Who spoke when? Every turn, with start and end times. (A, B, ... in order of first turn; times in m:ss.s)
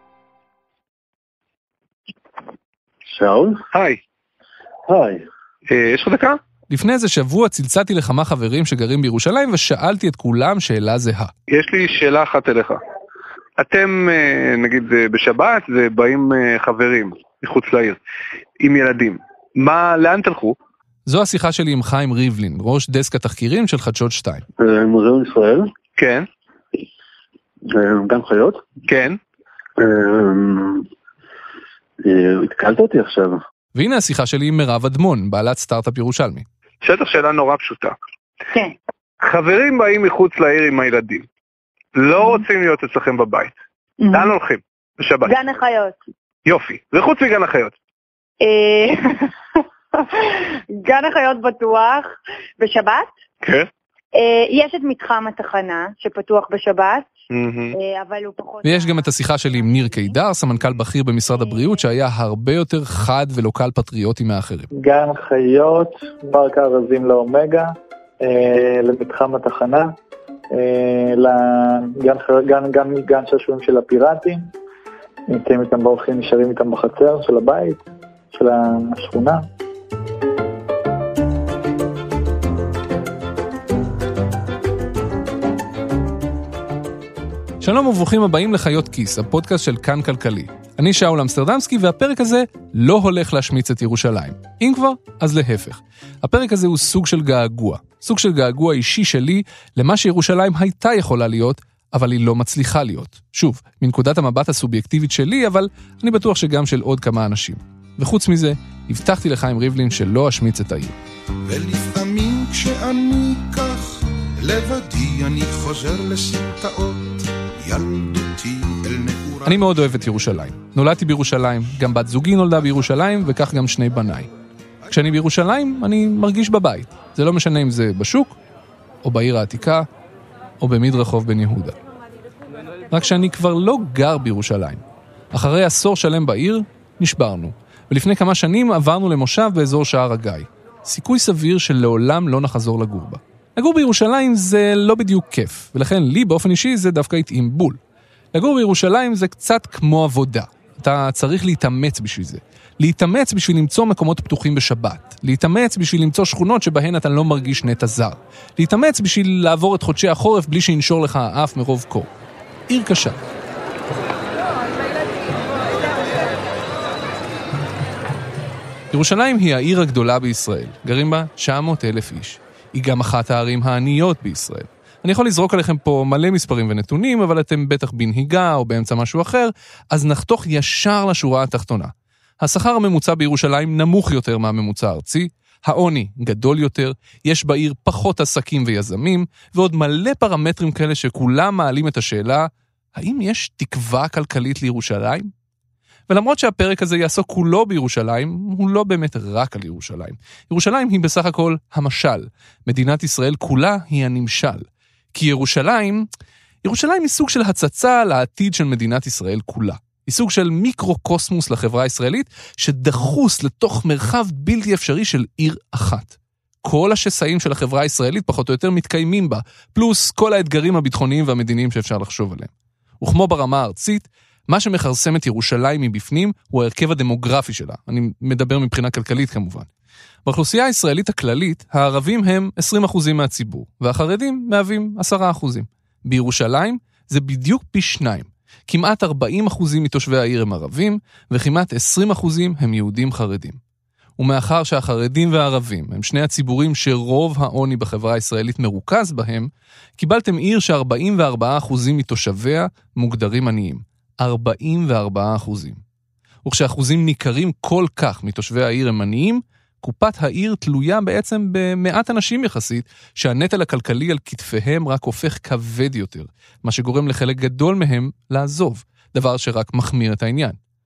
0:03.1-0:03.6 A
0:03.7-0:04.0 B
0:04.9-0:05.2 A
0:05.7-0:06.4 B
0:06.7-0:11.3 C
0:11.5-0:12.8 B
0:13.6-0:18.0 B
0:18.6-0:20.6 B
0:21.0-0:24.4 C
0:24.6-0:25.7 A
0:26.0-0:26.3 B
0:27.7-0:28.6 A
0:28.9-0:29.2 B
0:29.8-0:30.8 A
0:32.0-0:33.4 A
0:33.7-0:36.4 C
0:36.8-0:37.9 B
0:39.2-0:41.3 B
0:41.9-0:43.5 B
0:44.0-0:44.3 D
0:44.1-0:45.3 B
0:45.2-0:46.0 D
0:46.4-0:47.7 B
0:48.4-0:49.3 D
0:50.7-0:53.1 D
0:53.4-0:53.7 B
0:54.1-0:57.1 D
0:57.3-0:57.7 B
0:57.7-0:59.0 D
0:58.6-1:04.7 C
1:04.7-1:09.9 E
1:10.5-1:14.5 E
1:15.3-1:17.8 E
1:18.3-1:19.4 E
1:27.6-1:50.9 C
1:51.4-1:59.7 F
1:59.4-2:04.3 C
2:04.9-2:08.4 C
2:09.0-2:09.8 C
2:10.6-2:11.7 C
2:12.9-2:14.8 C
2:15.3-2:27.8 C
2:28.3-2:42.1 C
2:42.7-2:43.2 C
2:48.9-3:15.3 C
3:16.1-3:26.1 C
3:26.6-3:49.7 C
3:50.2-4:03.6 C
4:04.2-4:15.8 C
4:16.4-4:30.6 C